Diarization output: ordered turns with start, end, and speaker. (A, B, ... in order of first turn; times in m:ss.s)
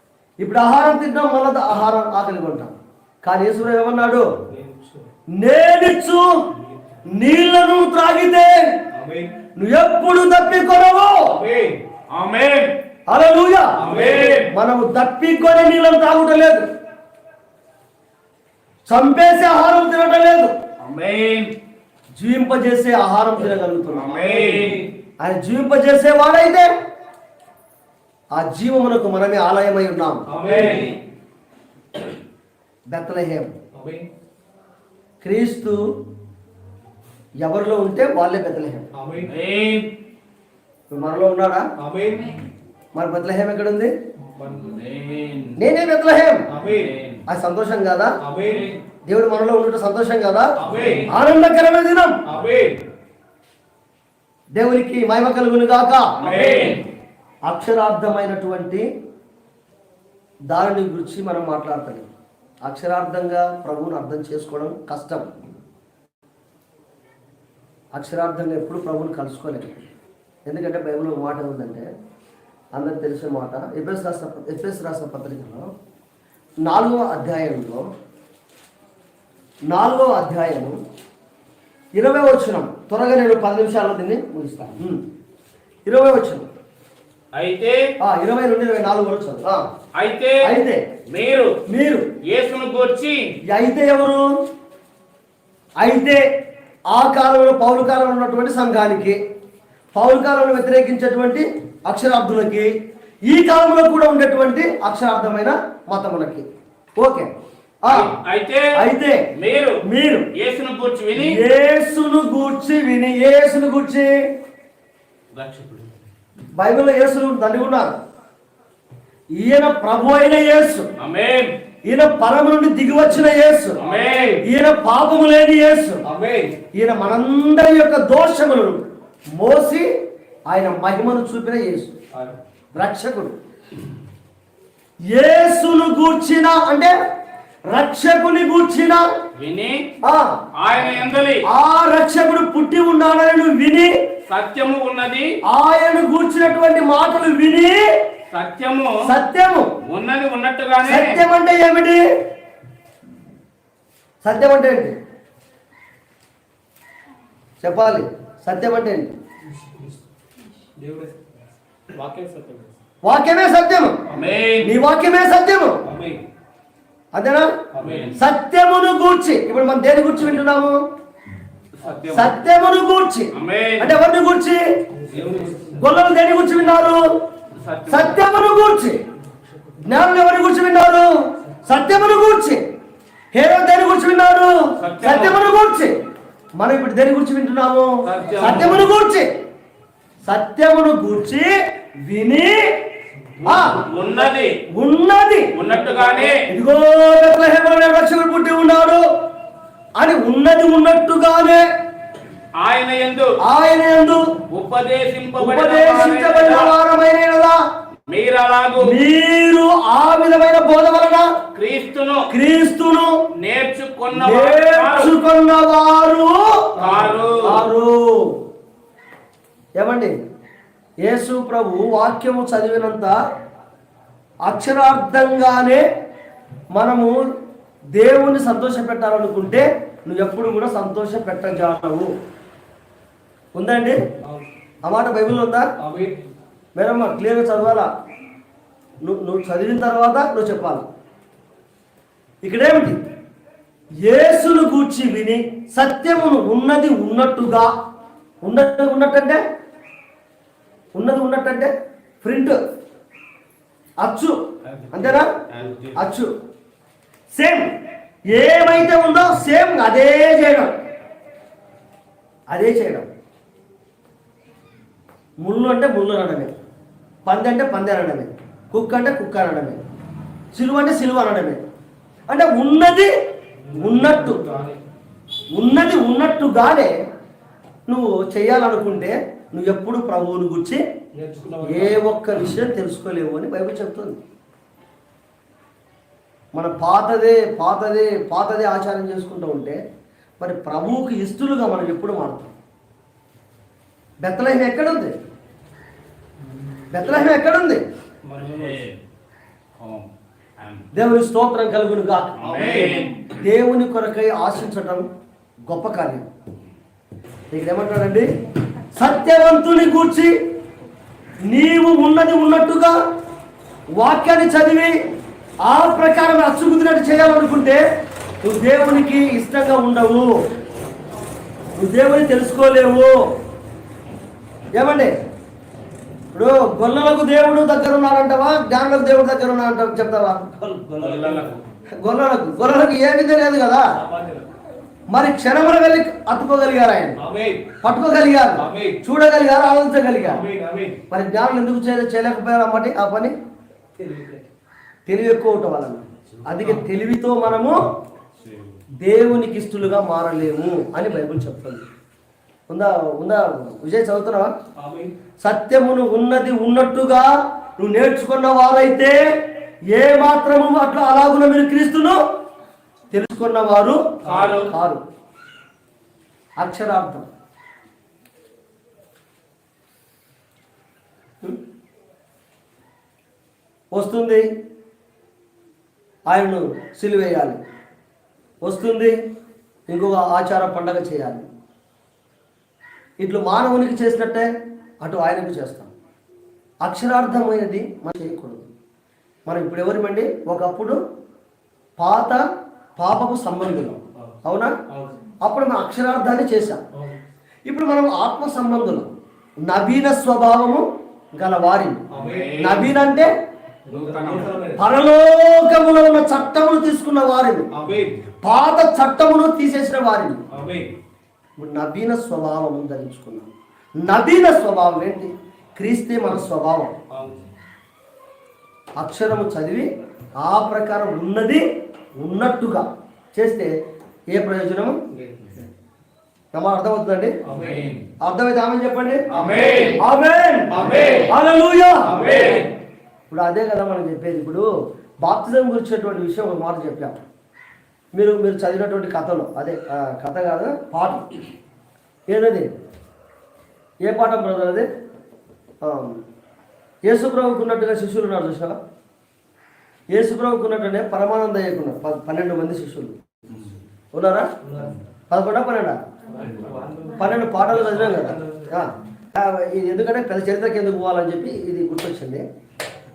0:00.4-0:04.3 A
0:04.5-0:05.1 B
0:05.4-0:06.3 A
0:06.6-0:07.0 B
0:07.1-0:08.8 A
0:08.9-0:09.4 B
0:09.6-0:11.4 A
0:11.3-0:11.8 B
0:12.1-0:12.8 C
0:13.1-0:16.6 A
0:13.8-0:14.4 B
0:13.8-0:14.5 C
0:18.9-0:20.5 A
0:20.8-0:21.5 C
0:22.2-0:24.2 A
0:23.9-0:24.9 C
0:24.1-0:24.8 B
0:25.2-0:26.7 A
0:28.3-0:30.3 A
0:30.3-0:31.0 B
0:30.4-0:31.0 C
0:32.9-0:33.5 A
0:33.7-0:34.1 B
0:35.2-0:35.8 A
0:37.4-0:38.9 A
0:38.9-0:39.3 B
0:39.2-0:39.9 C
0:40.9-0:41.6 A
0:41.8-0:42.4 B
0:43.0-0:43.9 A
0:44.2-0:44.8 B
0:44.6-0:45.6 C
0:45.6-0:46.4 A
0:46.5-0:47.0 B
0:46.7-0:47.2 C
0:47.3-0:48.1 A
0:48.2-0:48.8 B
0:49.1-0:50.5 A
0:50.6-0:51.1 B
0:50.7-0:51.1 C
0:51.0-0:52.2 A
0:52.3-0:52.9 B
0:54.6-0:56.1 A
0:56.2-0:56.8 C
0:56.2-0:56.8 B
0:57.5-0:58.8 A
1:00.5-1:02.1 A
1:02.6-1:05.3 A
1:08.0-1:09.8 A
1:10.5-1:11.9 A
1:12.8-1:15.7 A
1:16.6-1:17.8 A
1:19.7-1:20.8 A
1:22.0-1:25.0 A
1:25.9-1:26.5 A
1:27.3-1:27.8 C
1:28.0-1:29.6 A
1:30.0-1:30.5 C
1:30.4-1:30.8 A
1:31.1-1:31.5 C
1:31.7-1:32.1 A
1:32.2-1:33.3 C
1:33.5-1:34.2 A
1:35.8-1:36.2 A
1:36.9-1:39.2 A
1:39.9-1:42.7 A
1:43.3-1:46.5 A
1:47.0-1:47.3 A
1:47.8-1:48.1 A
1:47.9-1:48.6 C
1:48.8-1:49.2 A
1:49.4-1:49.8 C
1:49.8-1:50.3 A
1:50.4-1:51.4 C
1:51.2-1:54.1 A
1:55.4-1:56.0 C
1:56.6-1:57.9 A
1:59.4-2:00.9 A
2:01.0-2:01.5 C
2:01.8-2:03.8 A
2:03.8-2:04.4 C
2:03.8-2:04.4 B
2:04.4-2:06.0 A
2:06.0-2:06.6 B
2:06.8-2:08.8 A
2:09.4-2:09.9 A
2:10.5-2:12.0 A
2:12.1-2:12.4 B
2:12.8-2:13.4 A
2:15.1-2:17.0 A
2:17.7-2:19.0 A
2:19.4-2:19.9 C
2:20.0-2:20.4 A
2:20.6-2:21.5 C
2:21.4-2:23.9 A
2:24.3-2:25.3 C
2:25.4-2:27.9 A
2:28.3-2:29.0 C
2:29.0-2:29.7 A
2:29.8-2:31.2 C
2:30.8-2:32.0 A
2:34.2-2:35.0 A
2:37.6-2:39.2 A
2:39.5-2:40.0 B
2:40.8-2:42.8 B
2:43.0-2:44.0 A
2:44.1-2:44.4 B
2:44.1-2:44.7 C
2:44.6-2:45.8 A
2:45.8-2:46.2 B
2:47.1-2:47.5 A
2:47.7-2:48.1 B
2:47.8-2:48.1 C
2:48.2-2:50.8 A
2:51.8-2:52.2 C
2:51.8-2:52.3 B
2:52.1-2:54.6 A
2:53.4-2:54.0 C
2:55.0-2:56.0 B
2:55.7-2:57.0 A
2:57.5-2:58.2 C
2:57.9-2:59.0 A
2:59.8-3:01.1 A
3:01.6-3:02.6 A
3:03.3-3:05.9 A
3:04.8-3:05.5 C
3:06.6-3:09.3 A
3:08.1-3:08.9 C
3:10.2-3:11.5 A
3:12.1-3:12.7 A
3:13.4-3:14.1 B
3:13.4-3:13.9 A
3:13.7-3:14.6 C
3:14.7-3:15.5 A
3:15.5-3:16.4 C
3:15.7-3:16.3 B
3:16.5-3:19.0 A
3:20.0-3:21.7 A
3:22.6-3:23.4 C
3:23.4-3:24.2 A
3:24.5-3:26.7 C
3:25.4-3:27.6 A
3:28.1-3:29.0 C
3:28.8-3:31.3 A
3:31.5-3:32.2 C
3:32.3-3:33.2 A
3:33.4-3:35.1 C
3:34.1-3:36.7 A
3:36.8-3:37.4 B
3:36.8-3:37.6 C
3:37.4-3:38.4 A
3:39.8-3:40.1 A
3:41.1-3:43.2 A
3:44.4-3:45.8 A
3:46.8-3:47.1 A
3:48.0-3:52.1 A
3:53.6-3:54.0 A
3:54.2-3:54.5 B
3:54.8-3:55.7 A
3:55.8-3:56.2 B
3:56.8-3:57.9 A
3:59.0-4:00.9 A
4:02.4-4:03.0 A
4:04.0-4:07.7 A
4:08.4-4:09.4 A
4:11.0-4:12.6 A
4:14.0-4:14.4 A
4:14.7-4:16.0 C
4:14.9-4:15.4 A
4:15.9-4:16.3 A
4:17.3-4:17.7 A
4:18.3-4:20.7 A
4:22.5-4:23.1 A
4:25.4-4:26.5 A
4:27.2-4:29.8 A
4:30.5-4:31.6 A
4:32.3-4:33.1 A
4:33.6-4:34.8 B
4:33.7-4:34.5 A
4:35.5-4:36.9 A
4:37.9-4:40.8 A
4:41.1-4:42.1 B
4:41.6-4:44.2 A
4:46.5-4:49.8 A
4:50.4-4:52.5 A
4:54.2-4:55.2 A
4:56.6-4:57.2 B
4:56.9-4:57.8 A
4:58.2-4:58.8 B
4:58.5-4:59.0 C
4:59.8-5:00.1 C
5:00.6-5:00.9 C
5:00.9-5:05.1 A
5:02.4-5:03.2 C
5:02.4-5:03.0 B
5:05.6-5:06.3 A
5:07.5-5:08.3 A
5:08.9-5:10.4 A
5:11.5-5:13.0 A
5:14.0-5:15.0 A
5:15.6-5:17.8 A
5:18.4-5:20.4 A
5:21.8-5:23.1 A
5:24.8-5:25.1 A
5:26.3-5:30.5 A
5:30.6-5:31.6 B
5:31.0-5:31.6 C
5:32.0-5:33.9 A
5:34.0-5:34.5 B
5:35.1-5:37.2 A
5:37.2-5:37.7 B
5:37.8-5:40.4 A
5:38.6-5:39.0 B
5:40.2-5:41.0 B
5:41.1-5:43.3 A
5:44.0-5:44.4 B
5:45.1-5:47.8 A
5:49.0-5:51.8 A
5:52.7-5:54.5 A
5:54.8-5:55.2 B
5:55.4-6:02.2 A
6:03.1-6:04.0 A
6:04.2-6:04.7 B
6:04.3-6:04.7 C
6:04.6-6:05.0 A
6:06.6-6:07.2 A
6:13.9-6:14.5 A
6:16.3-6:17.6 A
6:18.6-6:19.2 A
6:19.9-6:21.5 A
6:23.2-6:24.5 A
6:25.0-6:25.9 A
6:26.8-6:28.7 A
6:29.5-6:31.0 A
6:32.0-6:32.4 A
6:33.0-6:34.7 A
6:34.9-6:35.2 B
6:35.4-6:36.8 A
6:36.9-6:37.2 B
6:37.7-6:39.1 A
6:39.6-6:42.0 A
6:42.1-6:42.6 B
6:42.2-6:43.0 C
6:42.6-6:43.3 A
6:43.9-6:44.9 B
6:43.9-6:44.5 C
6:44.8-6:47.7 A
6:47.7-6:48.2 B
6:48.4-6:50.4 A
6:50.5-6:50.9 B
6:51.6-6:53.5 A
6:54.0-6:56.9 A
6:57.1-6:57.5 B
6:59.0-6:59.9 A
7:00.4-7:01.6 A
7:02.2-7:03.7 A
7:04.3-7:05.0 A
7:05.1-7:05.6 B
7:06.5-7:07.4 A
7:07.4-7:07.9 B
7:07.6-7:08.0 C
7:08.2-7:12.4 A
7:09.3-7:09.9 B
7:09.3-7:10.0 C
7:10.7-7:11.3 B
7:10.9-7:11.3 C
7:12.0-7:12.7 B
7:12.2-7:12.7 C
7:13.3-7:14.7 A
7:15.2-7:17.2 A
7:18.1-7:21.3 A
7:22.3-7:22.7 A
7:24.0-7:24.9 A
7:25.8-7:26.2 A
7:27.1-7:28.8 A
7:30.1-7:33.2 A
7:34.1-7:34.5 A
7:34.6-7:35.0 B
7:35.3-7:36.0 A
7:36.3-7:38.8 B
7:37.2-7:42.4 A